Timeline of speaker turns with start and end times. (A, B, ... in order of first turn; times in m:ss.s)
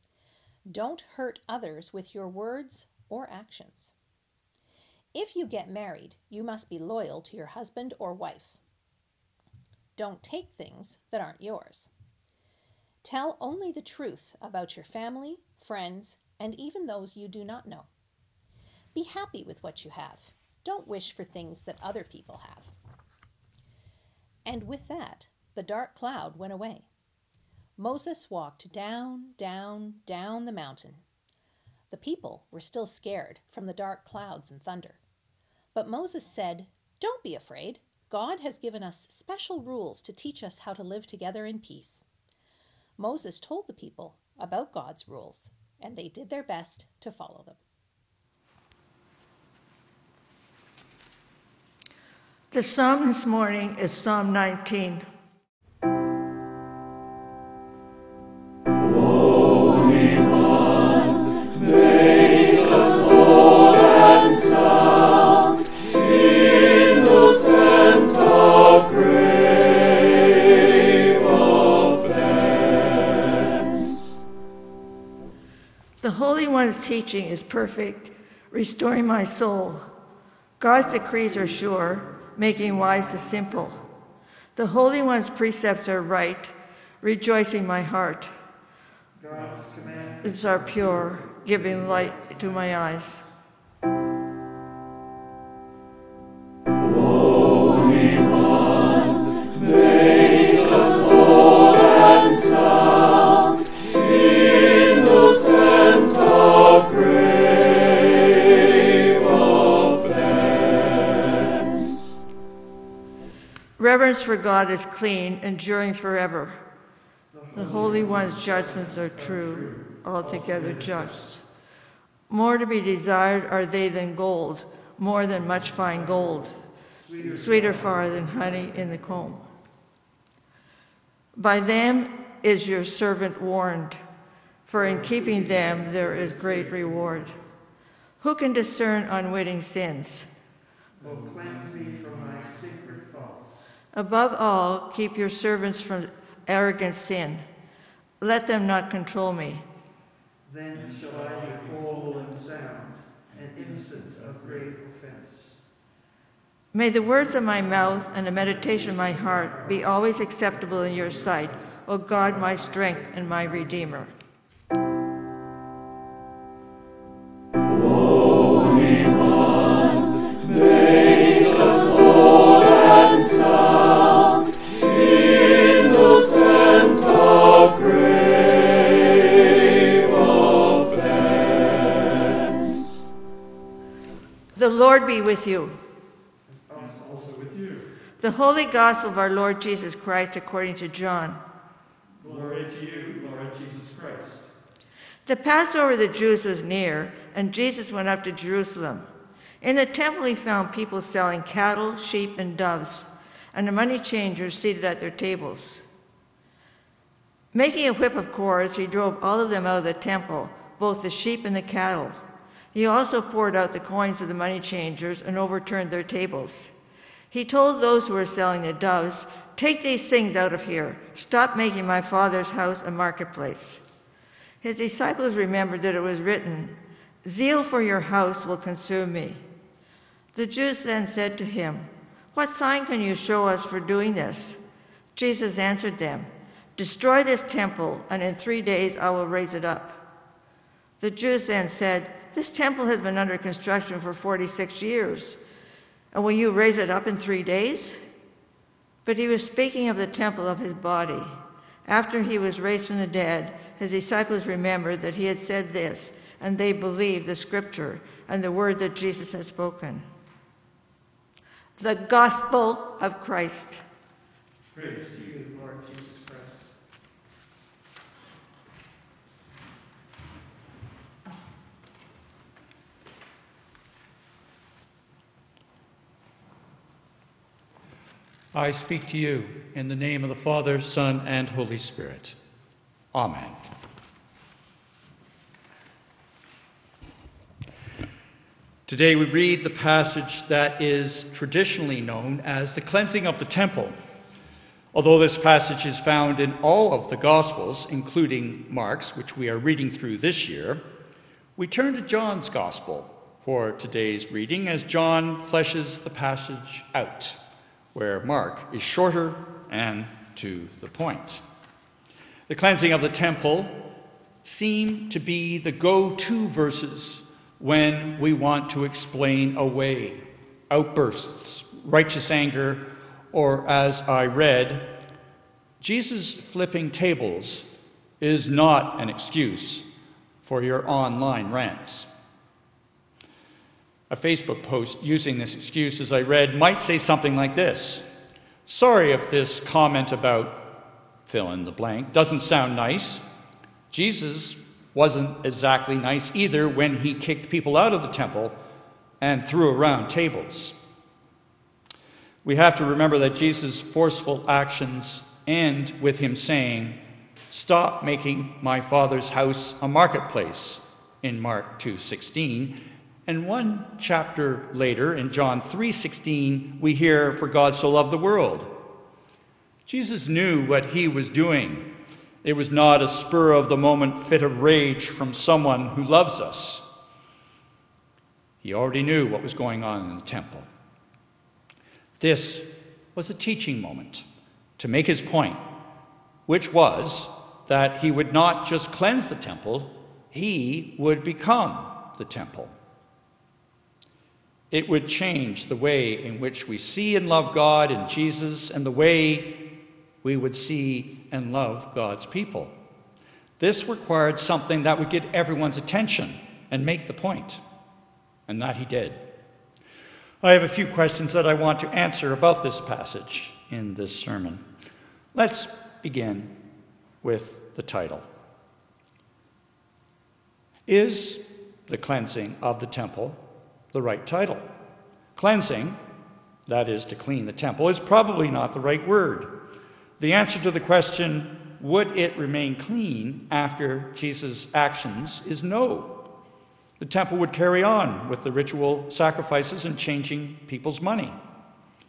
0:00.6-0:03.9 A
0:05.1-0:08.6 A
0:10.0-0:11.9 A
0:13.0-0:17.9 A
0:18.9-0:22.7 A
0:24.4-0:26.9 A
0:27.8-0:31.0 A
0:31.9-0:35.0 A
0:35.7-0:42.0 A
0:43.0-0:47.6 A
0:52.5-0:55.0 B
1:16.0-1:19.9 B
1:20.6-1:23.8 B
1:24.6-1:28.3 B
1:29.2-1:30.3 C
1:30.2-1:33.2 B
1:37.5-1:41.5 C
1:53.8-1:56.6 B
1:57.3-1:58.1 C
1:57.5-2:01.4 B
2:02.3-2:06.6 B
2:07.0-2:08.2 C
2:07.2-2:09.4 B
2:11.4-2:14.0 B
2:14.7-2:17.3 B
2:15.2-2:15.9 C
2:18.2-2:20.3 B
2:21.0-2:23.6 C
2:23.9-2:27.4 B
2:28.2-2:29.6 B
2:30.4-2:35.5 C
2:30.8-2:31.8 D
2:34.1-2:34.5 D
2:36.7-2:44.1 B
2:48.5-2:52.1 C
3:04.5-3:05.8 B
3:06.7-3:07.9 D
3:08.2-3:11.4 B
3:12.2-3:14.5 D
3:15.2-3:19.1 B
3:19.6-3:25.8 B
3:27.5-3:32.2 B
3:32.7-3:36.7 B
3:37.3-3:43.8 B
3:44.6-3:49.4 B
3:50.3-3:54.6 B
3:55.2-4:00.0 B
4:01.0-4:05.4 B
4:06.1-4:08.0 B
4:09.0-4:20.0 B
4:21.8-4:23.8 B
4:24.7-4:25.2 D
4:24.8-4:26.6 C
4:38.5-4:42.4 D
4:43.1-4:43.6 D
4:48.8-4:53.9 D
4:54.9-5:00.8 D
5:01.6-5:07.4 D
5:07.9-5:11.4 D
5:12.5-5:13.9 D
5:14.4-5:25.0 D
5:25.8-5:27.7 D
5:28.2-5:29.9 D
5:30.4-5:32.1 D
5:34.1-5:38.1 D
5:38.7-5:43.2 D
5:43.9-5:48.6 D
5:49.2-5:50.8 D
5:52.4-6:08.8 D
6:09.8-6:16.8 D
6:18.6-6:20.7 D
6:22.2-6:24.2 D
6:24.8-6:25.6 D
6:26.5-6:32.7 D
6:34.7-6:42.7 D
6:43.6-6:47.6 D
6:48.5-6:49.3 D
6:50.4-6:54.6 D
6:55.3-6:56.6 D
6:57.2-6:58.3 D
7:00.9-7:03.4 D
7:03.9-7:04.7 D
7:05.3-7:06.0 D
7:06.6-7:09.6 D
7:10.2-7:16.3 D
7:17.0-7:21.4 D